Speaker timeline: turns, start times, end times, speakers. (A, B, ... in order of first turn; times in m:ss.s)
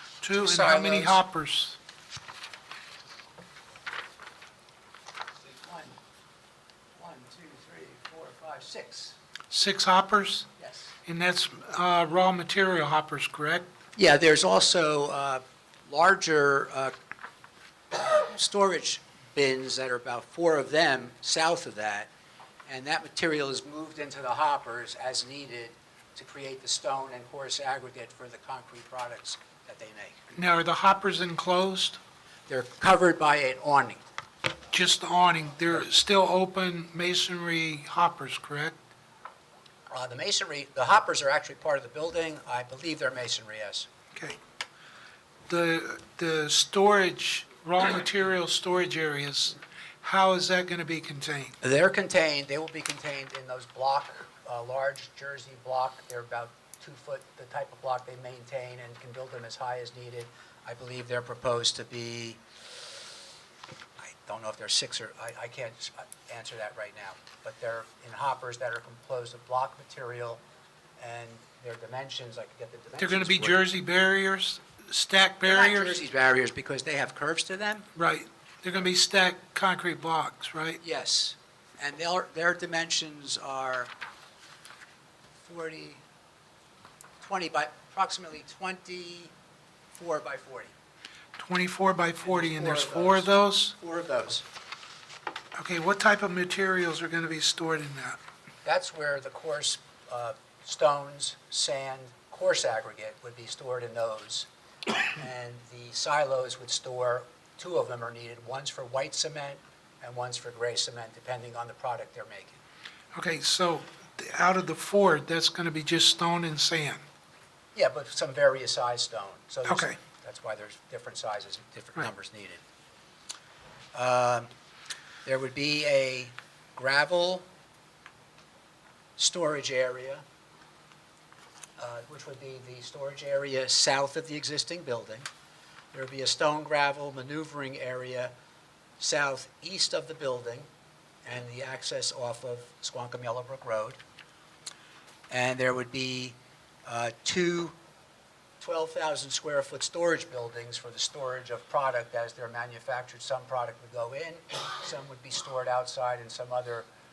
0:00.2-0:01.8 A
0:00.4-0:01.2 B
0:05.4-0:05.9 B
0:07.0-0:09.2 B
0:09.5-0:10.5 A
0:10.6-0:10.9 B
0:11.0-0:13.6 A
0:14.0-0:16.9 B
0:17.9-0:22.1 B
0:22.7-0:30.2 B
0:30.3-0:32.0 A
0:32.5-0:34.0 B
0:34.7-0:38.8 A
0:39.9-0:43.9 B
0:45.5-0:51.6 A
0:51.6-1:02.4 B
1:04.0-1:10.4 B
1:11.0-1:13.6 B
1:13.0-1:16.0 A
1:15.4-1:17.9 B
1:17.9-1:20.8 A
1:20.8-1:23.9 B
1:25.4-1:26.0 B
1:27.2-1:29.3 B
1:29.9-1:30.7 B
1:31.4-1:33.8 A
1:32.2-1:34.4 B
1:35.5-1:38.2 A
1:38.6-1:44.5 B
1:45.1-1:52.6 B
1:53.1-1:57.0 A
1:57.7-2:02.6 B
1:59.7-2:00.0 A
2:03.9-2:04.5 B
2:05.2-2:07.4 B
2:09.2-2:10.2 B
2:11.8-2:15.3 B
2:15.9-2:18.3 B
2:19.0-2:20.7 B
2:21.2-2:24.0 B
2:25.3-2:27.7 B
2:28.6-2:36.9 B